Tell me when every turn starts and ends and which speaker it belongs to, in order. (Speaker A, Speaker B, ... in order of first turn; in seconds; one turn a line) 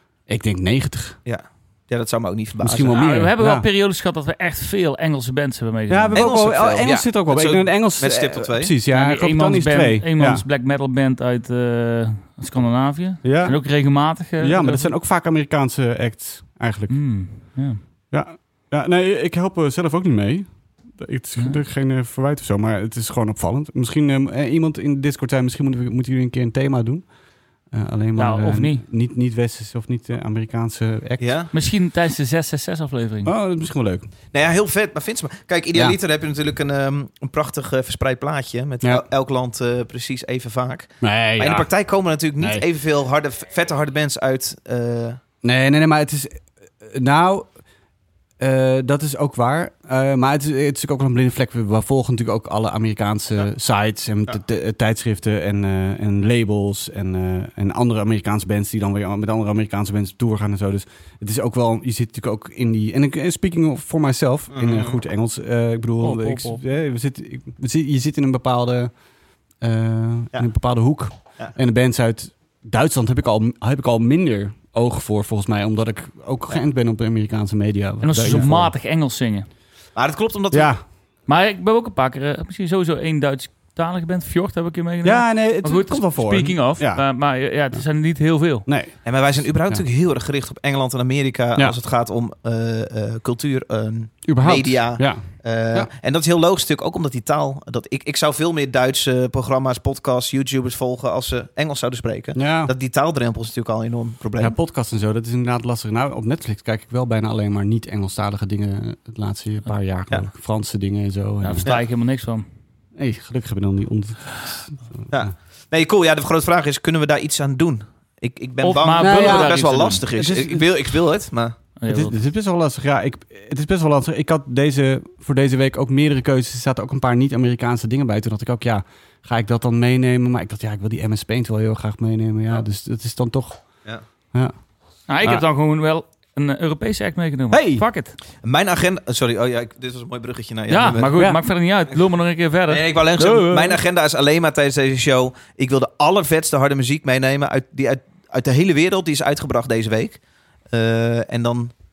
Speaker A: 0.3-1.2
Speaker B: 1.2-3.0
Speaker A: 2.6-3.7
Speaker C: 2.9-6.3
Speaker A: 5.9-10.4
Speaker B: 6.1-8.7
Speaker C: 8.9-14.9
Speaker A: 13.2-13.7
Speaker A: 14.4-17.0
Speaker C: 16.9-17.8
Speaker A: 18.1-27.1
Speaker A: 27.7-31.3
Speaker C: 28.2-28.8
Speaker B: 31.2-31.5
Speaker C: 31.5-33.3
Speaker A: 33.2-34.1
Speaker B: 34.3-45.2
Speaker A: 41.0-41.7
Speaker A: 42.4-42.6
Speaker A: 45.4-47.5
Speaker A: 48.4-68.9
Speaker B: 64.5-65.0
Speaker C: 66.0-66.6
Speaker A: 69.6-78.7
Speaker C: 78.0-79.5
Speaker B: 79.9-80.7
Speaker A: 80.5-80.8
Speaker C: 81.3-88.7
Speaker A: 85.0-87.0
Speaker A: 88.7-89.1
Speaker B: 89.0-104.5
Speaker A: 94.2-95.9
Speaker A: 102.3-102.7
Speaker A: 104.4-111.7
Speaker C: 111.4-112.5
Speaker A: 113.0-115.3
Speaker B: 115.1-121.5
Speaker C: 118.6-120.0
Speaker A: 119.0-120.8
Speaker C: 121.8-122.1
Speaker A: 121.9-133.6
Speaker C: 135.1-138.2
Speaker A: 137.5-137.8
Speaker B: 138.4-141.2
Speaker C: 140.7-142.8
Speaker A: 141.2-141.4
Speaker B: 142.7-150.2
Speaker A: 143.2-143.8
Speaker B: 150.7-151.7